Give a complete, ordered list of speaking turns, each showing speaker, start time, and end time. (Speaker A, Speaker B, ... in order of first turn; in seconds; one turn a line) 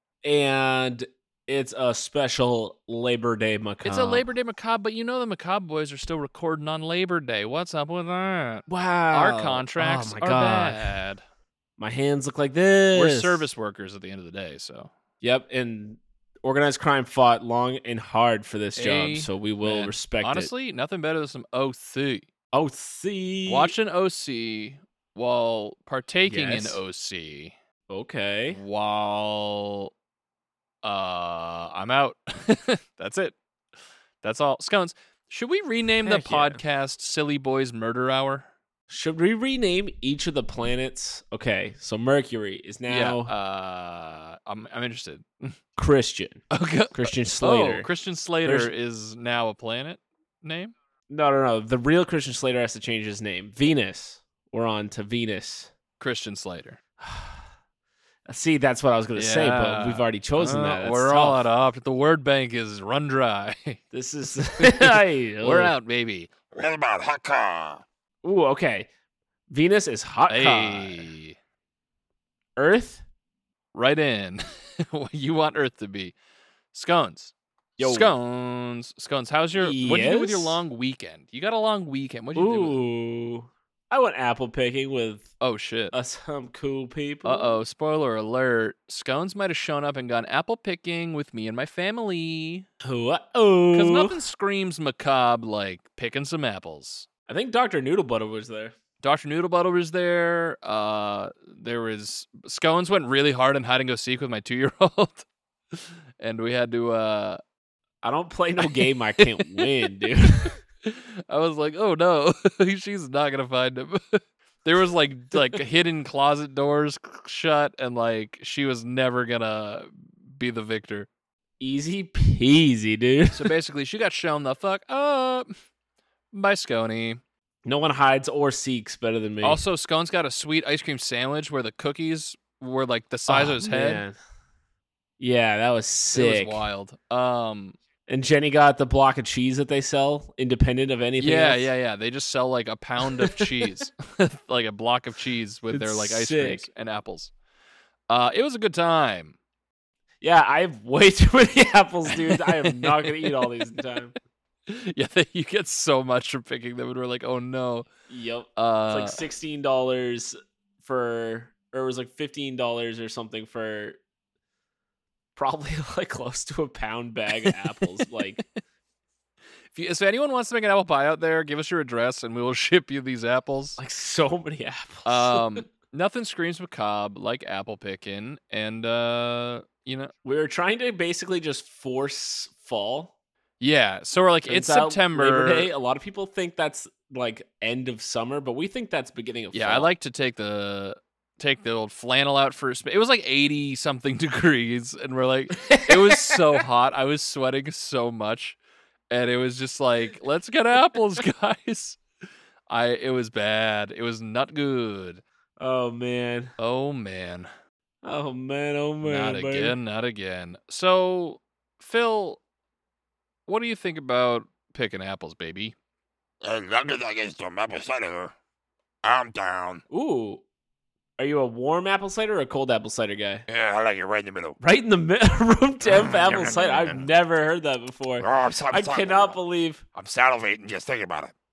Speaker A: 0.2-4.2
Speaker B: 3.8-11.2
Speaker A: 8.7-10.9
Speaker A: 11.8-13.4
Speaker B: 12.9-14.9
Speaker A: 15.2-20.5
Speaker B: 18.8-22.3
Speaker A: 22.5-23.7
Speaker B: 23.5-27.5
Speaker A: 26.2-26.8
Speaker A: 27.9-28.6
Speaker B: 28.5-29.9
Speaker B: 30.8-33.4
Speaker B: 34.2-38.5
Speaker A: 36.0-36.6
Speaker A: 38.9-43.3
Speaker B: 42.9-45.6
Speaker A: 45.8-47.9
Speaker B: 46.5-50.7
Speaker A: 48.4-48.7
Speaker A: 51.1-55.7
Speaker B: 56.0-56.8
Speaker A: 57.0-57.4
Speaker A: 58.2-61.4
Speaker B: 59.1-63.8
Speaker A: 63.9-65.7
Speaker B: 64.6-66.3
Speaker C: 66.5-67.8
Speaker A: 68.2-68.9
Speaker A: 69.5-71.1
Speaker B: 70.3-71.3
Speaker A: 72.6-73.0
Speaker B: 73.7-76.1
Speaker B: 76.7-82.8
Speaker A: 77.8-78.1
Speaker A: 79.6-80.6
Speaker A: 82.3-85.3
Speaker B: 85.4-85.9
Speaker A: 85.9-87.6
Speaker B: 87.2-92.7
Speaker A: 92.8-94.2
Speaker B: 93.7-97.1
Speaker A: 97.3-98.7
Speaker B: 99.0-107.4
Speaker A: 108.0-110.6
Speaker B: 108.6-109.8
Speaker B: 110.8-121.1
Speaker A: 121.6-123.5
Speaker B: 123.3-125.5
Speaker B: 126.3-127.2
Speaker A: 127.6-129.6
Speaker B: 129.4-134.0
Speaker A: 133.3-134.1
Speaker A: 135.2-136.6
Speaker B: 136.1-137.8
Speaker A: 138.1-141.7
Speaker B: 141.2-147.3
Speaker A: 143.0-143.6
Speaker A: 145.7-146.7
Speaker B: 148.1-149.3
Speaker A: 150.2-154.1
Speaker B: 152.1-153.5
Speaker B: 154.7-157.9
Speaker A: 158.1-164.0
Speaker B: 158.6-159.2
Speaker A: 165.3-168.4
Speaker B: 167.4-168.4
Speaker B: 169.7-173.8
Speaker A: 173.8-175.6
Speaker B: 175.0-180.1
Speaker A: 180.2-183.1
Speaker B: 183.6-185.7
Speaker A: 184.5-189.9
Speaker B: 189.5-198.6
Speaker A: 195.6-196.4
Speaker B: 199.1-202.0
Speaker B: 202.7-205.2
Speaker A: 205.6-206.5
Speaker B: 206.6-207.5
Speaker A: 208.0-209.8
Speaker B: 209.0-212.4
Speaker B: 213.4-215.7
Speaker C: 216.4-218.3
Speaker C: 219.0-219.8
Speaker A: 219.9-220.4
Speaker A: 221.2-223.4
Speaker C: 223.5-224.6
Speaker A: 224.6-229.8
Speaker C: 226.0-227.1
Speaker C: 228.2-229.4
Speaker C: 229.9-231.3